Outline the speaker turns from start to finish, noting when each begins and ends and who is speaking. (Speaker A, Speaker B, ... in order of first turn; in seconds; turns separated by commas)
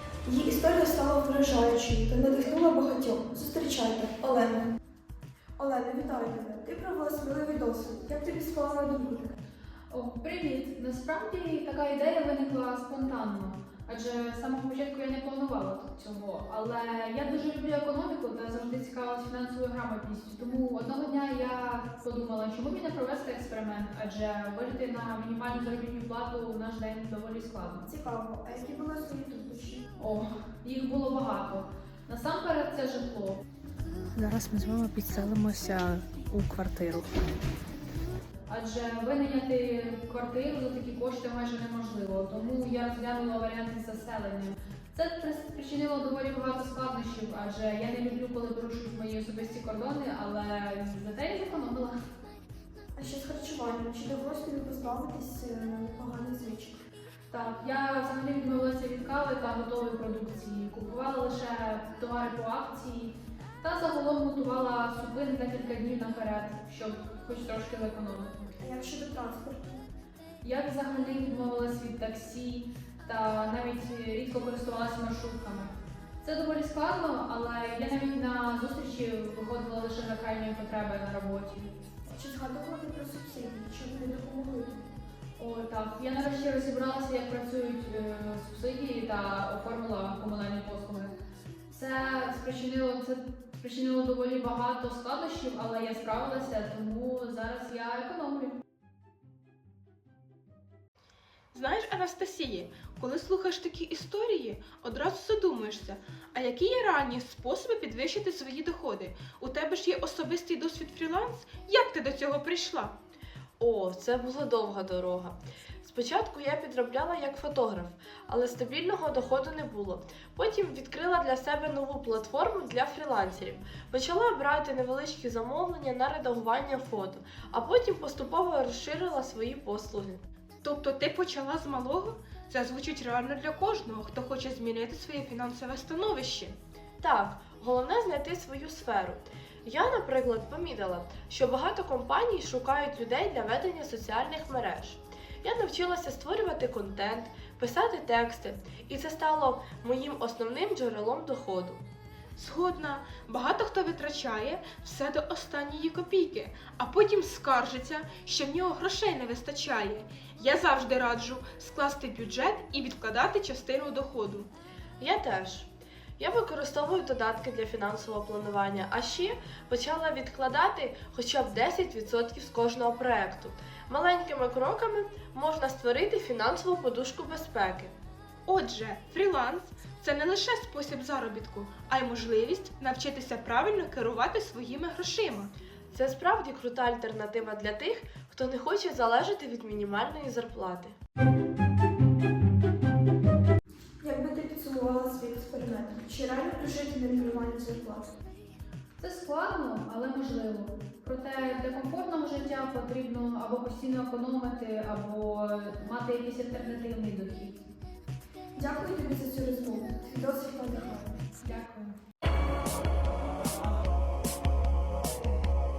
Speaker A: 0.2-4.7, Speaker A: 5.6-9.4, Speaker B: 9.9-27.9, Speaker A: 27.9-29.9, Speaker B: 30.0-33.4, Speaker C: 34.1-37.3, Speaker B: 38.5-52.0, Speaker A: 53.0-56.8, Speaker B: 57.3-68.5, Speaker A: 68.6-69.9, Speaker B: 70.4-81.7, Speaker A: 82.0-84.9, Speaker B: 85.4-91.2, Speaker B: 91.7-98.6, Speaker D: 101.5-113.0, Speaker E: 113.6-130.2, Speaker D: 130.6-136.6, Speaker E: 137.0-151.8, Speaker D: 152.3-164.5, Speaker E: 165.0-177.9, Speaker D: 178.5-185.5, Speaker E: 185.9-190.9, Speaker A: 194.0-198.2, Speaker B: 199.0-207.6, Speaker A: 208.6-211.2, Speaker B: 211.4-212.0